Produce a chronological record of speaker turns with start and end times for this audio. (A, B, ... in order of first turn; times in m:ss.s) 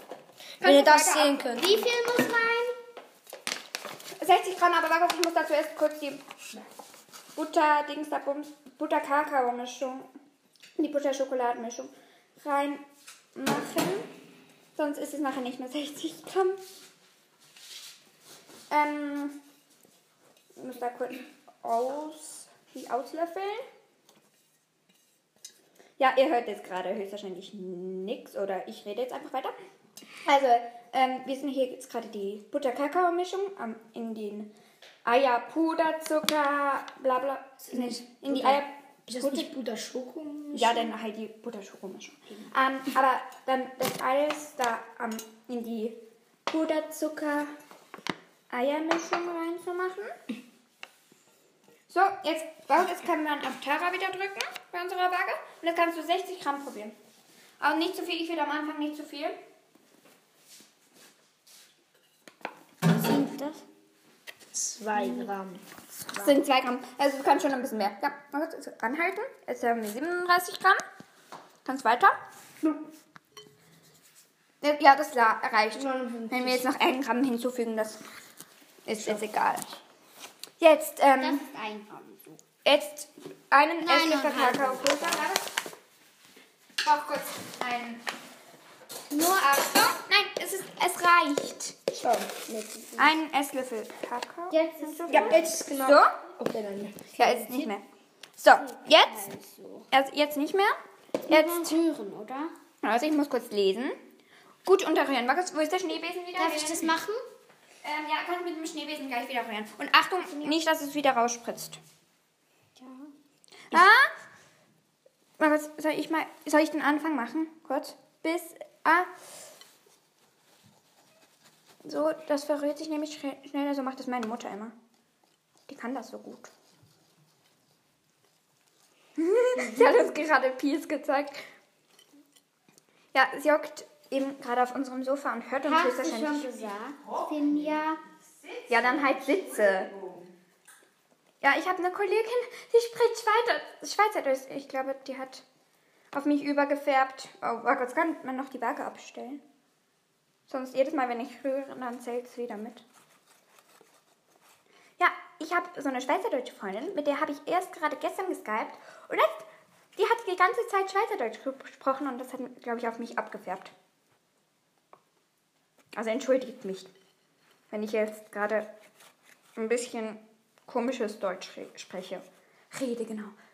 0:00.6-0:01.8 A
0:00.6-0:01.4 B
0:01.5-0:02.8 C
0:04.2-0:06.2 B
0:07.4-0:10.1 B
0:10.8-0:12.8 B
0:13.3-0:14.1 B
0:14.8-0:16.6 B
0:18.7-0:19.4 B
0:20.6-0:23.6 B
0:26.0-0:29.5 B
0:30.2-0:34.5 B
0:35.0-0:39.5 B
0:37.6-0:40.9 A
0:40.5-0:47.5 B
0:48.5-0:50.2 B
0:51.9-0:57.0 B
0:57.6-0:59.4 B
1:02.8-1:03.6 C
1:04.5-1:05.6 A
1:05.0-1:05.3 C
1:06.2-1:10.8 B
1:11.6-1:12.7 B
1:14.6-1:18.0 B
1:15.7-1:16.6 A
1:18.8-1:19.8 B
1:20.6-1:21.4 B
1:21.2-1:22.4 C
1:22.6-1:25.5 B
1:23.8-1:25.3 C
1:26.8-1:28.0 B
1:29.1-1:31.8 B
1:31.9-1:33.1 A
1:33.0-1:36.1 B
1:34.5-1:35.6 C
1:35.1-1:37.1 A
1:37.2-1:37.7 C
1:37.2-1:37.8 B
1:38.4-1:39.3 B
1:38.6-1:39.9 C
1:39.9-1:40.8 B
1:41.2-1:42.5 C
1:41.3-1:41.7 B
1:42.8-1:44.0 B
1:44.6-1:46.9 B
1:46.4-1:47.2 C
1:47.8-1:51.8 B
1:52.8-1:53.1 C
1:53.7-1:54.1 B
1:55.4-1:59.1 B
2:01.8-2:04.7 B
2:05.7-2:06.5 B
2:09.2-2:11.5 B
2:13.1-2:16.7 B
2:15.6-2:18.0 C
2:18.7-2:19.9 B
2:21.4-2:25.4 B
2:26.1-2:29.4 B
2:30.5-2:32.8 B
2:35.0-2:43.7 B
2:45.9-2:46.9 B
2:47.7-2:48.7 B
2:49.6-2:53.3 B